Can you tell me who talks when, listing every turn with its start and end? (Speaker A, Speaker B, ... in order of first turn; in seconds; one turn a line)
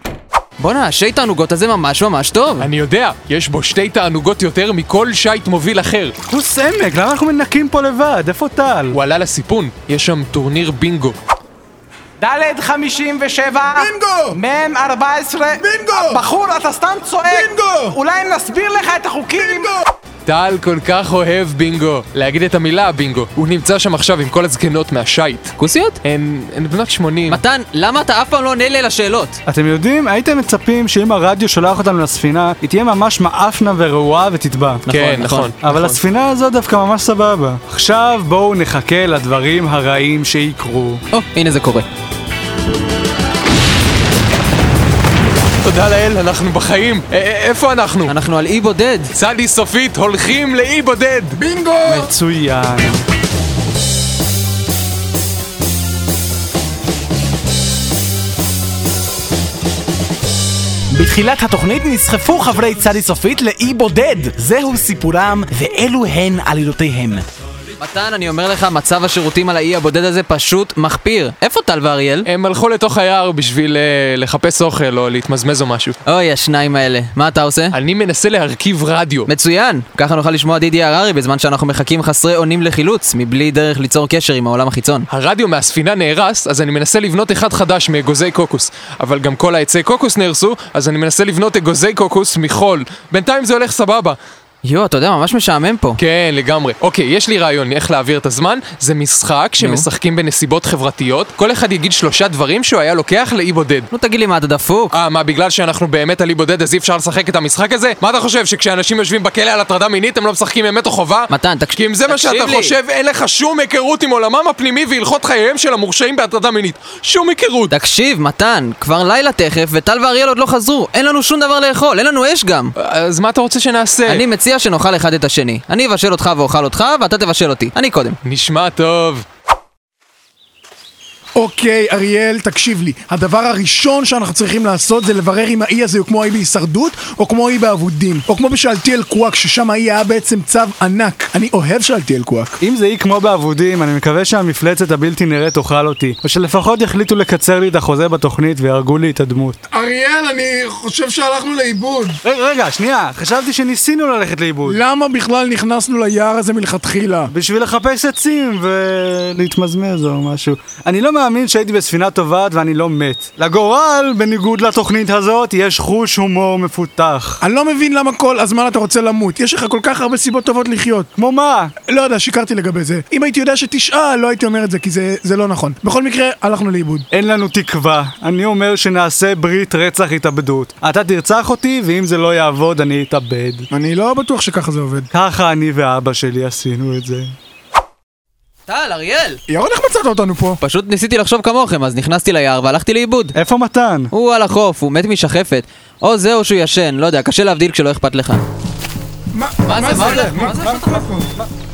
Speaker A: 0.6-2.7
Speaker B: 2.6-6.2
Speaker C: 6.3-9.0
Speaker B: 8.9-11.2
Speaker D: 12.2-19.8
Speaker E: 13.7-14.4
Speaker E: 15.5-16.2
Speaker E: 17.2-18.0
Speaker E: 19.4-19.8
Speaker B: 20.3-27.4
Speaker A: 25.6-26.0
Speaker A: 27.3-29.4
Speaker C: 29.5-34.8
Speaker A: 34.9-35.5
Speaker B: 34.9-36.0
Speaker C: 35.6-41.0
Speaker A: 41.1-41.9
Speaker B: 45.6-48.1
Speaker A: 48.1-49.1
Speaker B: 49.1-51.4
Speaker E: 51.4-52.1
Speaker C: 51.9-53.0
Speaker D: 60.9-67.2
Speaker A: 67.8-72.3
Speaker B: 72.2-76.0
Speaker A: 76.1-77.8
Speaker B: 77.7-79.3
Speaker A: 79.3-85.1
Speaker B: 85.1-94.2
Speaker A: 94.6-96.0
Speaker B: 96.0-103.9
Speaker A: 99.6-99.9
Speaker A: 103.9-104.9
Speaker B: 104.9-117.7
Speaker A: 111.3-112.8
Speaker A: 117.7-122.7
Speaker B: 122.8-124.3
Speaker A: 124.1-128.2
Speaker B: 128.2-129.2
Speaker E: 131.4-142.6
Speaker C: 142.6-149.6
Speaker E: 149.7-152.2
Speaker C: 152.2-154.8
Speaker E: 154.7-157.3
Speaker C: 157.3-167.4
Speaker E: 167.4-171.1
Speaker C: 171.2-171.7
Speaker E: 171.9-177.1
Speaker C: 177.1-183.7
Speaker E: 183.7-185.1
Speaker C: 185.1-187.3
Speaker A: 188.7-189.4
Speaker E: 189.5-190.6
Speaker A: 190.6-193.3
Speaker C: 193.3-194.1
Speaker A: 194.1-198.4
Speaker E: 199.3-201.3
Speaker A: 199.7-201.1